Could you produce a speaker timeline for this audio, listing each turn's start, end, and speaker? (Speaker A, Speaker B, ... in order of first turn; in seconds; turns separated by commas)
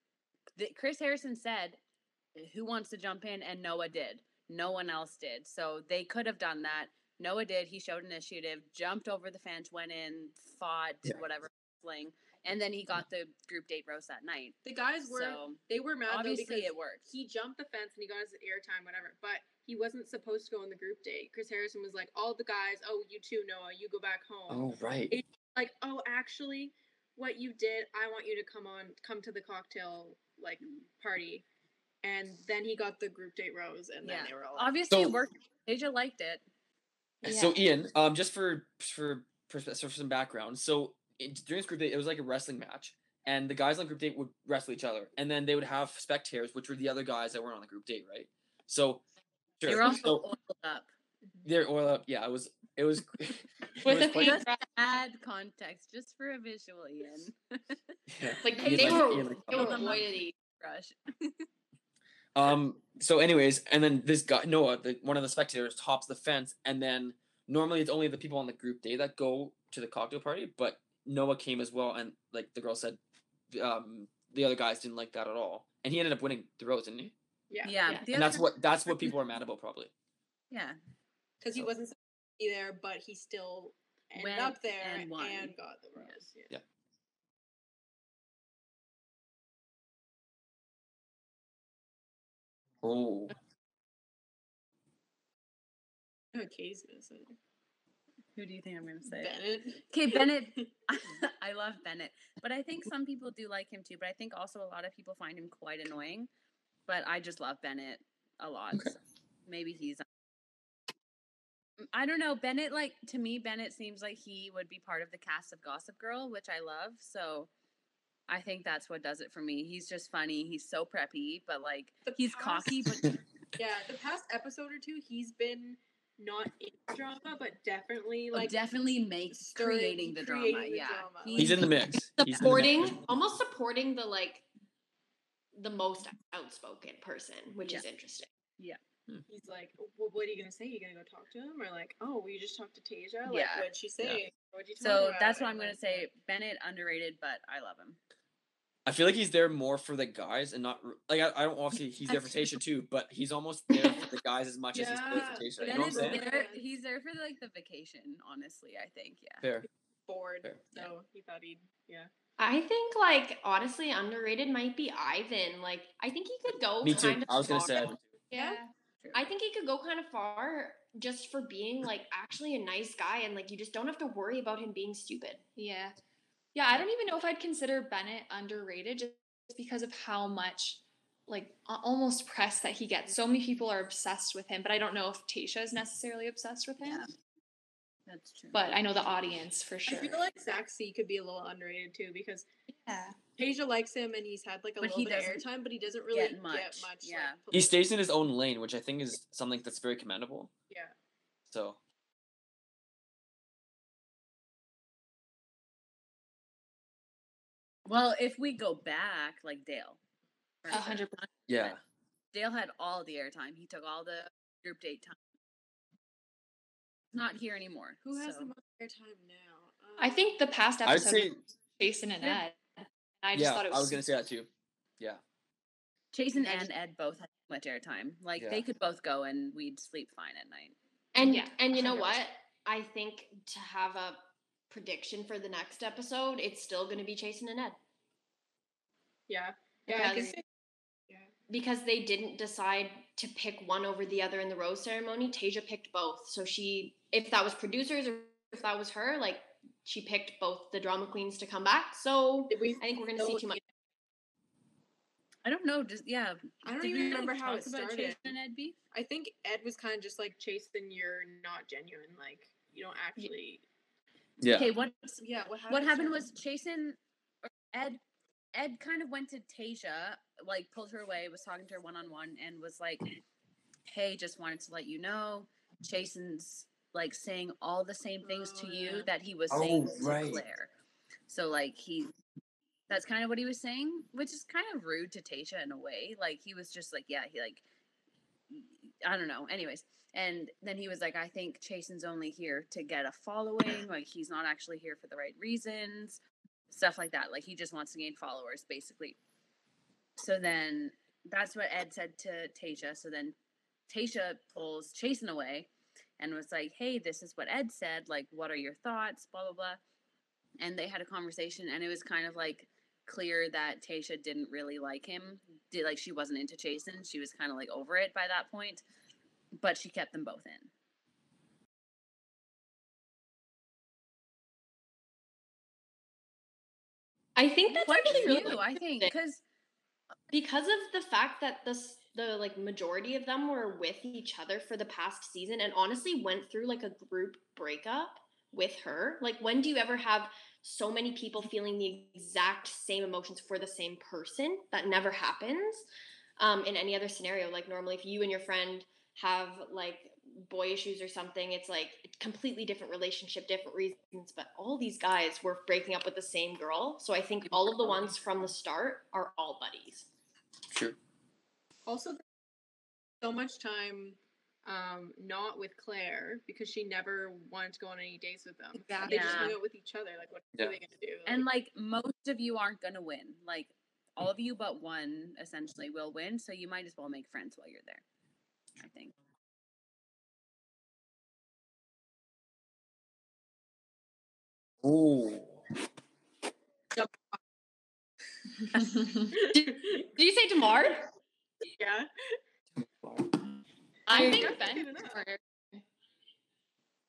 Speaker A: 0.6-1.8, Speaker A: 2.4-17.1, Speaker B: 14.6-31.4, Speaker C: 24.5-25.2, Speaker B: 32.0-34.7, Speaker A: 34.0-36.4, Speaker C: 34.9-35.2, Speaker D: 37.2-37.6, Speaker C: 37.2-49.0, Speaker C: 49.6-50.2, Speaker A: 49.6-50.9, Speaker C: 51.5-54.4, Speaker D: 53.8-54.6, Speaker A: 53.9-57.8, Speaker C: 58.1-60.0, Speaker E: 58.4-60.3, Speaker A: 58.5-61.5, Speaker C: 62.4-73.0, Speaker C: 73.5-77.1, Speaker B: 77.5-77.8, Speaker A: 77.6-78.5, Speaker C: 78.1-79.9, Speaker A: 80.5-80.8, Speaker B: 81.4-86.5, Speaker A: 84.2-86.2, Speaker C: 92.8-93.3, Speaker B: 96.3-97.3, Speaker A: 98.4-106.3, Speaker B: 99.0-100.3, Speaker A: 106.9-110.0, Speaker A: 111.8-117.5, Speaker A: 118.3-123.2, Speaker B: 122.1-122.8, Speaker B: 123.6-128.6, Speaker A: 128.3-132.5, Speaker B: 129.3-131.6, Speaker C: 131.4-133.0, Speaker E: 132.3-134.5, Speaker E: 135.5-138.3, Speaker B: 139.3-146.1, Speaker A: 143.3-143.7, Speaker A: 144.8-148.0, Speaker C: 148.9-156.2, Speaker B: 154.7-156.6, Speaker A: 155.6-159.4, Speaker C: 159.4-159.7, Speaker B: 160.1-162.1, Speaker C: 160.4-160.7, Speaker E: 162.4-167.9, Speaker C: 166.8-168.0, Speaker D: 168.3-168.7, Speaker B: 168.3-168.6, Speaker E: 169.1-175.4, Speaker D: 175.6-175.9, Speaker D: 176.6-187.1, Speaker A: 188.1-188.6, Speaker D: 188.5-190.2, Speaker B: 189.9-192.5, Speaker D: 192.7-193.2, Speaker B: 193.4-197.8, Speaker A: 194.8-195.4, Speaker A: 196.1-197.4, Speaker C: 197.5-200.5, Speaker B: 200.7-200.9, Speaker C: 201.5-201.8, Speaker A: 207.9-210.0, Speaker A: 210.6-211.1, Speaker D: 210.7-211.3, Speaker C: 211.5-211.8, Speaker A: 212.3-215.2, Speaker A: 217.1-218.5, Speaker B: 218.0-220.3, Speaker D: 220.0-224.1, Speaker C: 220.8-221.4, Speaker C: 223.3-225.2, Speaker A: 226.1-230.8, Speaker C: 228.4-228.6, Speaker E: 231.1-237.8, Speaker D: 231.2-232.2, Speaker B: 239.3-240.4, Speaker E: 239.9-240.4, Speaker E: 241.5-253.6, Speaker B: 252.5-253.6, Speaker A: 255.4-258.8, Speaker B: 256.6-258.2, Speaker B: 258.9-263.6, Speaker C: 264.4-264.7, Speaker A: 264.6-268.0, Speaker B: 265.2-266.3, Speaker A: 268.5-273.1, Speaker A: 273.9-280.7, Speaker B: 278.2-279.1, Speaker C: 279.5-280.4, Speaker A: 281.3-282.1, Speaker A: 282.9-287.6, Speaker A: 288.5-296.2, Speaker A: 296.7-299.2, Speaker A: 300.2-303.4, Speaker A: 303.9-309.8, Speaker A: 310.6-318.8, Speaker A: 319.6-320.7, Speaker E: 327.4-329.1, Speaker A: 327.7-329.4, Speaker E: 330.3-345.9, Speaker E: 346.4-360.1, Speaker C: 360.7-361.0, Speaker B: 361.9-362.2, Speaker B: 363.2-371.5, Speaker D: 368.8-369.6, Speaker A: 369.1-369.6, Speaker A: 371.3-378.0, Speaker A: 378.8-379.1, Speaker C: 384.8-385.6, Speaker D: 388.7-389.4, Speaker B: 389.4-390.0, Speaker E: 389.5-391.1, Speaker B: 391.6-392.4, Speaker C: 392.8-393.4, Speaker D: 394.1-395.8, Speaker E: 394.1-394.6, Speaker B: 394.1-395.2